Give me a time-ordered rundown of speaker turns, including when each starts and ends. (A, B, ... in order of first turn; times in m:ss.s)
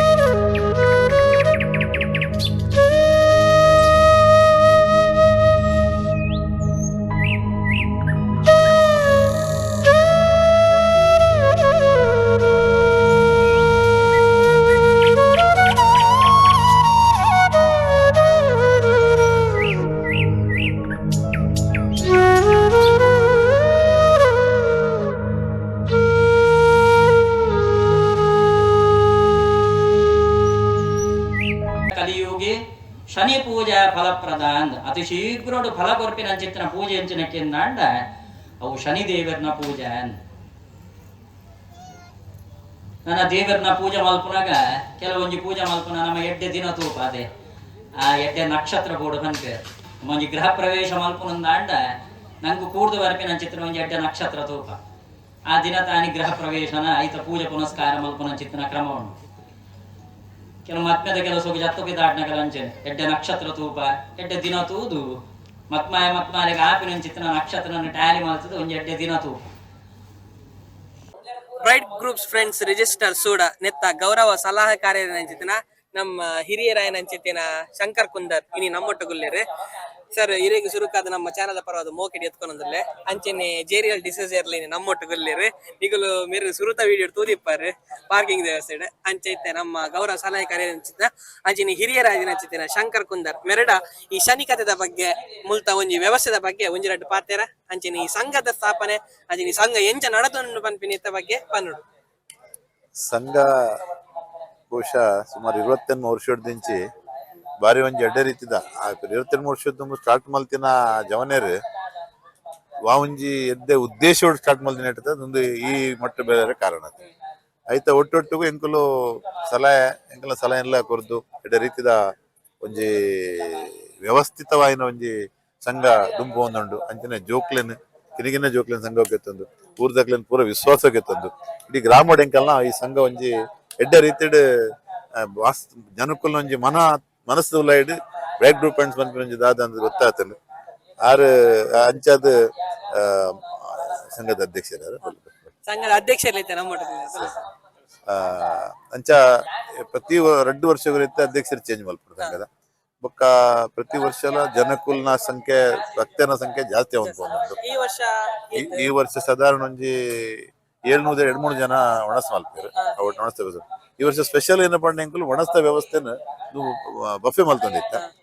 0:31.9-0:32.6 A
0:33.1-0:38.1 A
0:38.6-0:40.2 A
0:43.0-0:47.2 A
0:48.0-0:54.8 A
0:55.5-0:59.2 A
1:00.6-1:05.1 A
1:05.7-1:09.4 A
1:11.6-1:19.4 B
1:20.1-1:41.8 B
1:43.0-1:43.8 C
1:44.7-1:46.8 C
1:47.6-1:51.6 C
1:52.8-1:57.0 C
1:57.7-2:02.0 C
2:02.6-2:14.4 C
2:15.1-2:20.4 C
2:21.0-2:22.3 C
2:22.9-2:25.5 C
2:25.6-2:27.4 B
2:28.1-2:32.5 C
2:33.0-2:37.6 C
2:37.0-2:38.9 B
2:38.5-2:48.0 C